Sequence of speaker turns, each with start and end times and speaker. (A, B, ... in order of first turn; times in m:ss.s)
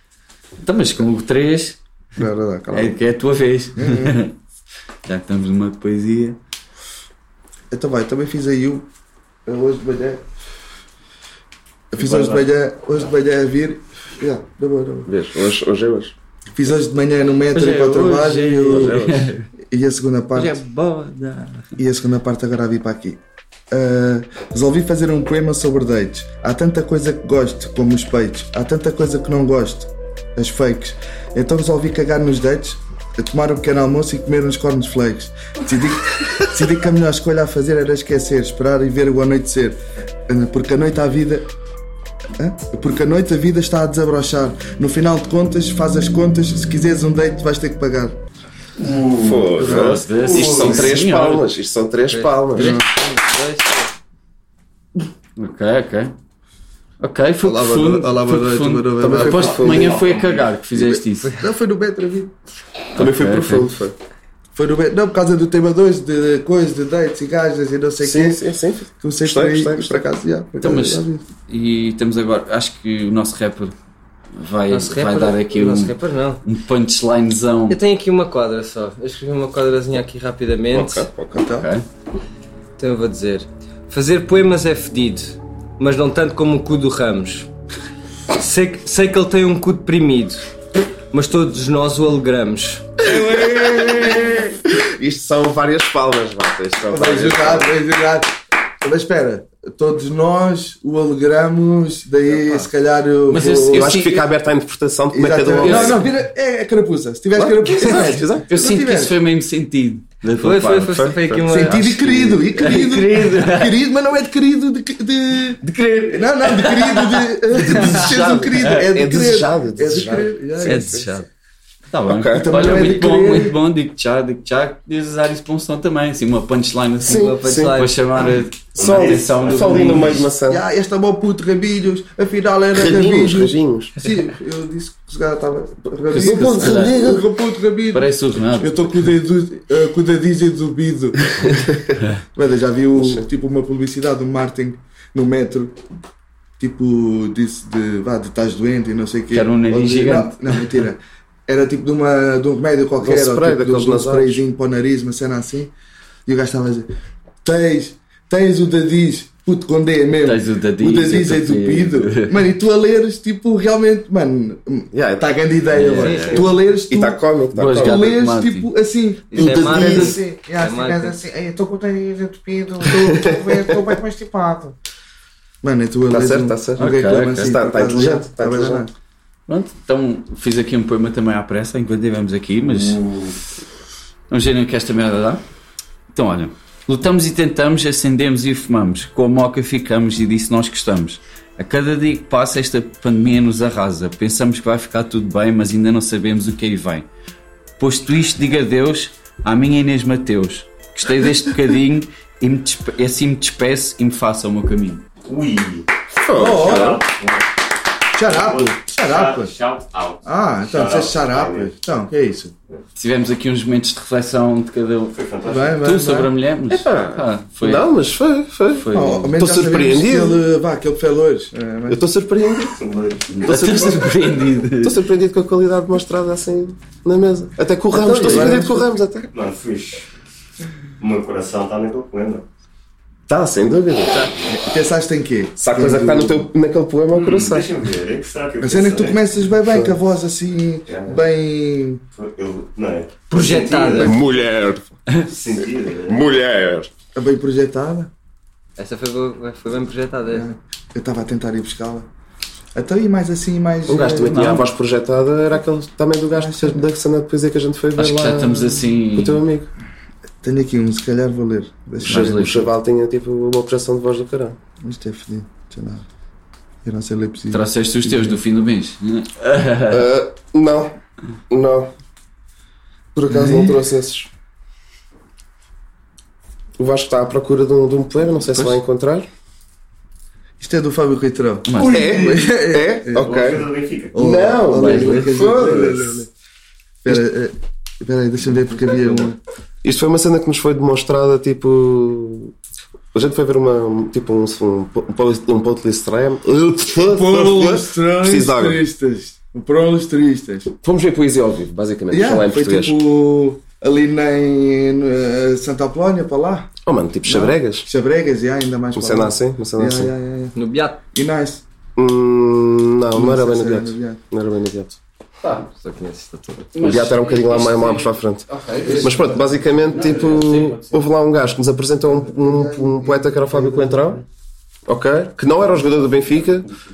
0:00.6-0:01.8 A
0:02.2-0:03.0 B
0:02.7-0:04.3 A
0:03.8-0:04.2 B
0:05.0-0:06.4 A
0:07.7-0:08.9 B
0:09.5-0:10.2 B
0:11.9-0:15.1 B
0:12.0-0:12.5 C
0:15.1-0:16.1 D
0:16.5-0:19.0 B
0:17.5-0:19.5 A
0:18.7-0:19.3 D
0:19.6-0:20.6 B
0:20.4-0:21.7 A
0:21.8-0:23.2 B
0:23.7-0:41.5 B
0:42.4-0:48.2 B
0:49.1-0:51.5 A
0:49.2-0:52.8 D
0:50.3-0:50.8 C
0:52.1-0:53.9 E
0:52.6-0:52.8 B
0:55.4-0:56.1 A
0:57.0-1:01.3 A
0:57.4-1:00.0 B
0:59.0-1:00.0 D
0:59.7-1:00.4 C
1:00.8-1:02.3 B
1:03.0-1:03.7 A
1:03.0-1:04.0 D
1:04.6-1:08.4 B
1:08.0-1:10.1 D
1:09.0-1:11.2 B
1:10.6-1:13.7 A
1:14.4-1:17.8 A
1:14.7-1:16.4 E
1:17.7-1:21.1 E
1:20.7-1:21.4 D
1:21.3-1:21.7 B
1:21.6-1:21.8 A
1:22.8-1:27.5 E
1:28.3-1:30.4 E
1:31.1-1:33.1 E
1:33.1-1:37.8 D
1:36.9-1:44.0 B
1:42.4-1:42.6 E
1:43.3-1:44.3 A
1:43.7-1:46.1 D
1:45.1-1:49.2 B
1:45.5-1:46.1 A
1:47.4-1:48.5 D
1:48.5-1:53.8 A
1:50.4-1:52.9 E
1:50.9-1:51.4 D
1:51.5-1:55.6 B
1:55.6-1:58.9 A
1:56.1-2:01.1 B
1:57.7-2:01.1 D
1:59.9-2:00.2 E
2:00.6-2:01.3 A
2:01.9-2:10.3 A
2:02.1-2:03.0 D
2:02.3-2:03.6 B
2:07.0-2:07.8 D
2:07.1-2:08.0 E
2:08.8-2:10.3 C
2:08.8-2:10.6 D
2:10.5-2:25.8 B
2:12.7-2:14.0 D
2:15.9-2:17.2 D
2:16.1-2:17.1 A
2:17.9-2:18.8 A
2:23.0-2:23.2 D
2:26.6-2:35.7 B
2:29.3-2:30.7 A
2:33.0-2:34.4 D
2:36.3-2:36.9 B
2:37.4-2:54.8 B
2:40.2-2:42.4 A
2:44.9-2:45.8 D
2:45.7-2:46.3 A
2:46.0-2:46.5 E
2:46.0-2:46.4 C
2:46.3-2:48.2 D
2:47.5-2:48.7 A
2:49.3-2:51.2 E
2:49.4-2:50.2 D
2:52.9-2:53.9 D
2:55.6-2:58.9 B
2:56.1-2:58.8 D
2:56.8-2:57.6 A
2:59.5-3:03.0 A
3:04.3-3:05.4 A
3:06.1-3:17.1 A
3:17.8-3:25.0 A
3:25.2-3:27.4 C
3:26.2-3:27.0 D
3:26.4-3:27.0 B
3:28.2-3:29.5 B
3:28.2-3:31.7 C
3:30.2-3:32.5 B
3:33.0-3:35.2 A
3:35.1-3:35.8 C
3:35.4-3:36.3 B
3:35.7-3:37.9 A
3:36.7-3:40.4 D
3:38.7-3:39.3 A
3:38.9-3:42.0 B
3:41.9-3:42.8 D
3:42.8-3:43.4 C
3:43.3-3:45.0 A
3:43.4-3:44.2 D
3:44.8-3:49.3 D
3:47.9-3:48.9 B
3:49.3-3:50.1 C
3:51.0-3:52.4 C
3:53.3-3:54.3 D
3:54.5-3:56.5 B
3:55.6-3:57.7 D
3:57.1-3:59.2 C
3:58.6-4:02.0 B
3:59.7-4:00.0 D
4:00.9-4:01.2 C
4:02.1-4:04.4 C
4:03.3-4:04.1 E
4:04.0-4:04.9 D
4:05.2-4:06.2 C
4:06.1-4:06.9 D
4:07.2-4:08.1 B
4:08.8-4:10.5 E
4:10.3-4:12.1 B
4:12.8-4:14.4 B
4:13.9-4:19.7 D
4:14.3-4:14.7 A
4:16.4-4:16.8 B
4:18.0-4:19.4 A
4:20.4-4:22.5 B
4:22.0-4:24.6 D
4:22.0-4:22.7 A
4:24.8-4:26.0 B
4:26.8-4:28.4 B
4:27.5-4:30.1 A
4:29.9-4:31.0 D
4:31.5-4:31.9 D
4:33.2-4:33.8 B
4:33.3-4:34.3 D
4:36.8-4:39.3 D
4:38.5-4:38.8 A
4:40.6-4:43.6 B
4:41.6-4:42.3 A
4:41.8-4:46.2 D
4:43.2-4:44.2 C
4:44.1-4:46.3 B
4:44.7-4:45.5 A
4:47.0-4:49.4 B
4:49.8-4:52.5 D
4:53.1-4:58.8 D
4:57.0-5:00.7 B
5:00.8-5:03.0 D
5:02.1-5:06.7 B
5:06.8-5:07.9 D
5:07.2-5:10.5 B
5:09.0-5:10.1 D
5:10.6-5:11.0 E
5:11.1-5:11.6 B
5:12.0-5:15.0 D
5:13.1-5:14.2 B
5:15.4-5:16.9 E
5:16.8-5:21.0 A
5:16.8-5:24.2 D
5:18.8-5:19.6 B
5:22.2-5:24.2 B
5:24.9-5:26.7 D